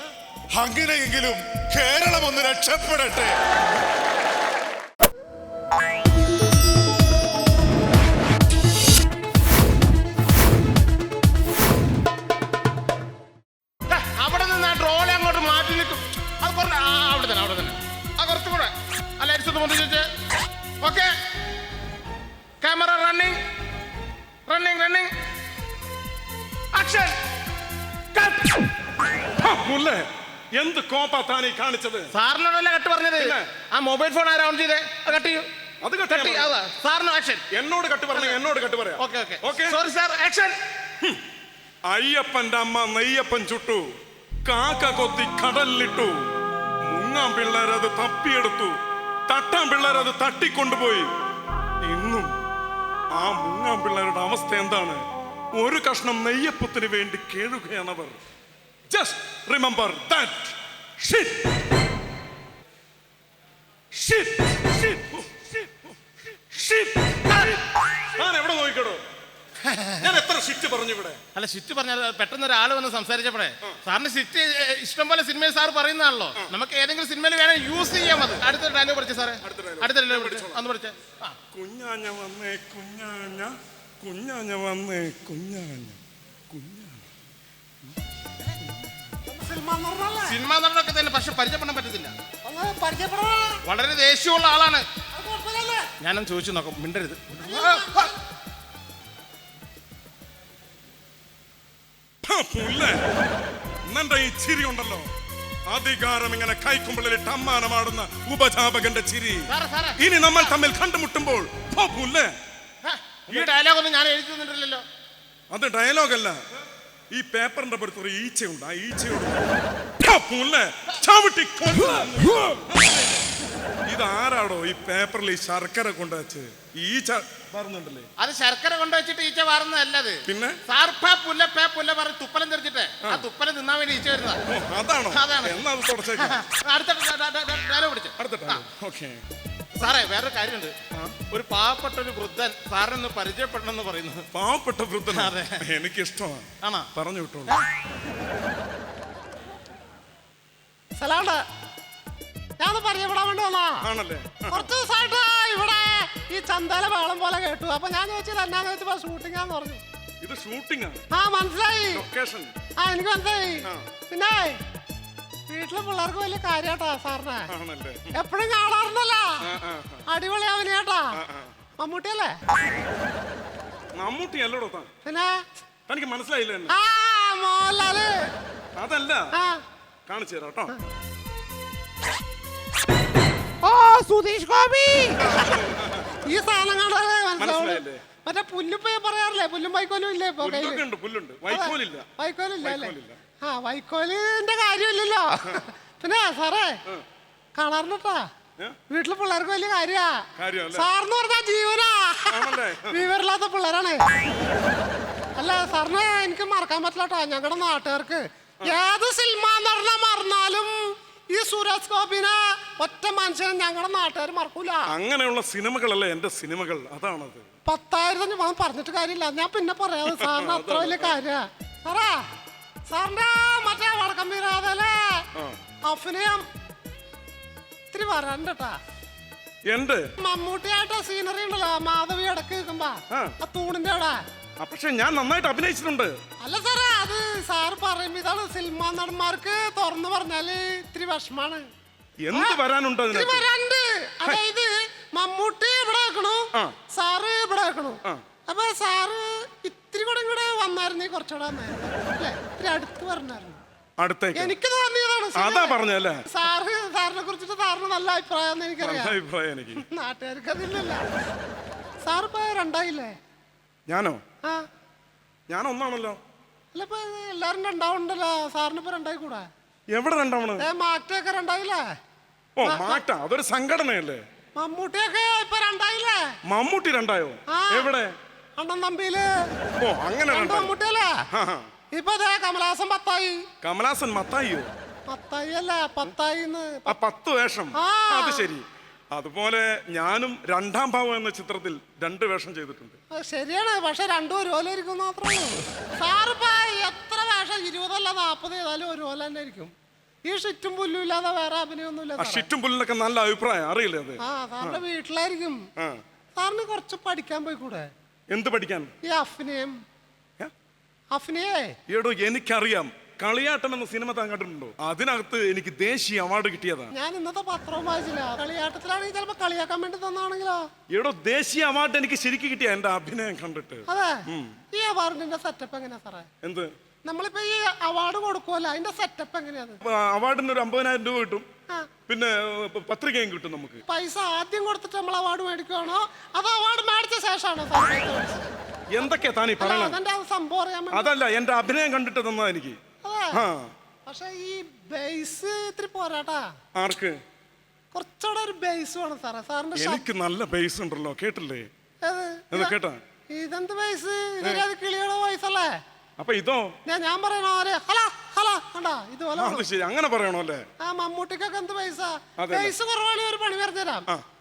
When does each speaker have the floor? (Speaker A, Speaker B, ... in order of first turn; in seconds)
Speaker A: 0.6-3.3
Speaker B: 13.9-20.1, 20.8-21.1, 22.6-23.4, 24.5-25.1, 26.8-27.1, 32.2-35.4, 36.5-37.4, 39.0-40.5, 71.3-79.3, 80.0-80.9, 90.3-92.1, 93.7-94.8, 96.0-97.3, 113.7-114.8, 128.2-130.2, 130.7-134.4, 136.7-138.1, 140.0-140.8, 141.3-144.2, 145.3-145.5
Speaker C: 29.4-32.1, 33.2-33.4, 35.8-36.6, 37.5-39.8, 41.9-43.8, 44.5-46.2, 46.9-48.7, 49.3-51.1, 51.9-52.3, 53.2-55.0, 55.6-58.2, 58.9-61.3, 63.9-65.9, 66.5-67.6, 68.1-69.0, 70.0-71.2, 79.4-80.6, 81.5-86.0, 86.5-87.0, 102.2-103.0, 103.9-105.1, 105.7-112.3, 113.3-113.6, 115.5-116.4, 117.1-123.2, 123.9-128.1, 130.3-130.6, 134.5-136.4, 138.2-139.2, 144.3-147.6, 153.8-154.7, 160.2-161.0, 161.9-162.5, 167.5-168.2, 169.4-170.0, 171.2-171.5, 174.0-174.9, 175.9-176.7, 178.8-179.2, 180.1-180.7, 185.2-186.2, 187.4-188.0, 190.4-192.1, 192.6-193.2, 200.4-200.9, 202.3-203.1, 214.9-217.4, 220.1-221.2, 229.7-230.1, 234.6-236.1, 242.2-243.5, 254.0-254.5, 255.3-256.2, 258.8-259.8, 263.9-264.2, 265.5-266.2, 269.9-270.7, 272.6-274.2, 276.5-278.1, 279.8-280.7, 281.3-281.7, 283.6-284.7, 286.9-293.0, 302.2-304.8, 308.3-308.9, 311.9-316.9, 320.9-324.5, 326.4-326.7, 329.9-331.4, 332.1-333.8, 338.9-340.0, 340.9-342.8, 343.3-343.7, 346.8-347.2, 349.8-351.7, 352.5-353.0, 354.4-354.6, 356.2-356.7, 359.3-360.6, 362.4-362.8
Speaker D: 89.3-90.4, 92.5-93.6, 95.2-95.8, 97.4-98.1, 151.0-151.4, 152.6-153.7, 154.5-159.8, 161.2-162.0, 162.8-163.6, 164.1-164.6, 165.5-167.4, 168.2-169.3, 170.1-171.1, 171.8-172.3, 175.0-175.4, 176.8-178.1, 186.3-190.8, 191.5-192.9, 193.5-196.7, 197.6-198.2, 198.9-200.1, 200.7-204.0, 205.4-210.7, 211.4-214.8, 217.7-222.2, 222.9-225.1, 225.9-226.4, 227.9-228.8, 230.2-234.2, 236.4-241.6, 243.1-253.6, 254.4-255.7, 256.4-259.1, 259.9-261.0, 262.1-263.1, 266.7-269.4, 270.6-271.8, 272.7-273.0, 274.6-276.2, 278.6-279.2, 280.3-281.1, 282.0-283.4, 285.1-286.9, 287.9-288.4, 293.2-299.7, 300.3-302.4, 304.4-305.6, 306.4-307.9, 309.1-309.7, 311.1-311.6, 317.0-320.6, 324.8-326.3, 327.1-329.8, 333.9-338.5, 339.6-341.1, 344.1-346.4, 347.9-350.0, 352.1-352.7, 353.4-355.7, 356.9-359.6, 360.9-364.0